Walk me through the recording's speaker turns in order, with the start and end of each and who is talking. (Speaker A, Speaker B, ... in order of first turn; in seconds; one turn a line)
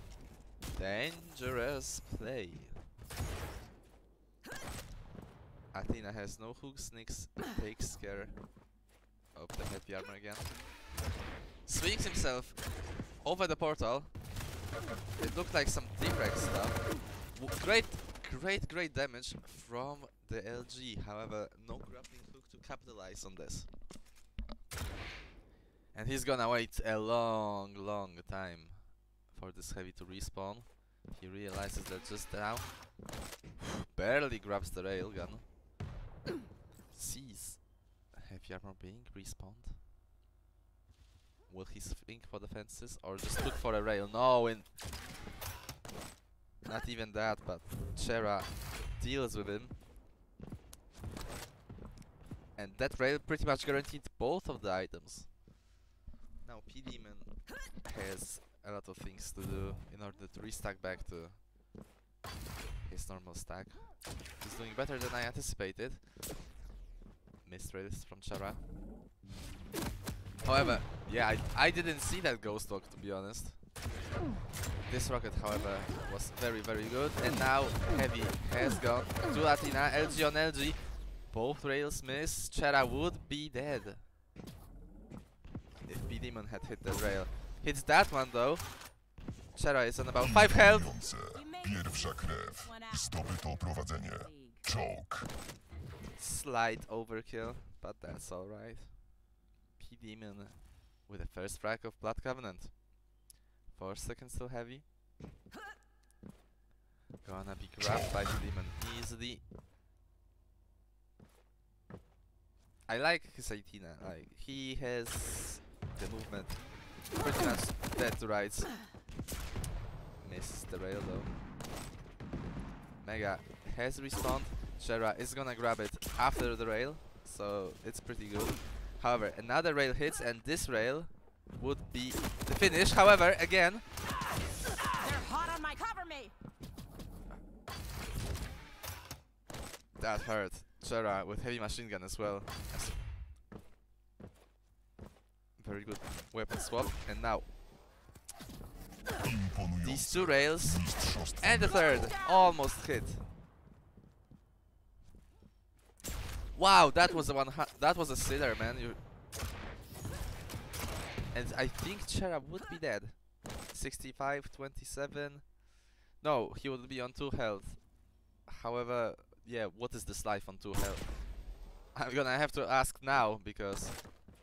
Speaker A: 0.7-2.8
Speaker A: 5.7-8.6
Speaker A: 9.3-10.8
Speaker A: 11.6-14.2
Speaker A: 15.2-23.7
Speaker A: 25.9-32.8
Speaker A: 33.9-35.5
Speaker A: 36.9-39.8
Speaker A: 41.5-44.7
Speaker A: 46.6-49.8
Speaker A: 52.5-55.4
Speaker A: 56.4-61.4
Speaker A: 62.8-66.4
Speaker A: 67.4-68.6
Speaker A: 70.4-73.6
Speaker A: 74.8-84.0
Speaker B: 77.2-77.5
Speaker A: 85.8-89.0
Speaker A: 89.5-91.0
Speaker B: 90.2-95.3
Speaker C: 91.3-94.6
Speaker A: 96.2-99.2
Speaker A: 99.8-102.9
Speaker A: 103.7-104.8
Speaker A: 107.2-109.4
Speaker B: 107.8-108.1
Speaker A: 112.9-118.8
Speaker A: 120.2-121.3
Speaker A: 123.0-133.8
Speaker C: 135.0-136.3
Speaker A: 140.0-143.0
Speaker A: 145.6-147.5
Speaker B: 149.2-152.2
Speaker A: 149.8-153.2
Speaker A: 156.5-159.0
Speaker A: 161.3-165.6
Speaker A: 166.2-174.3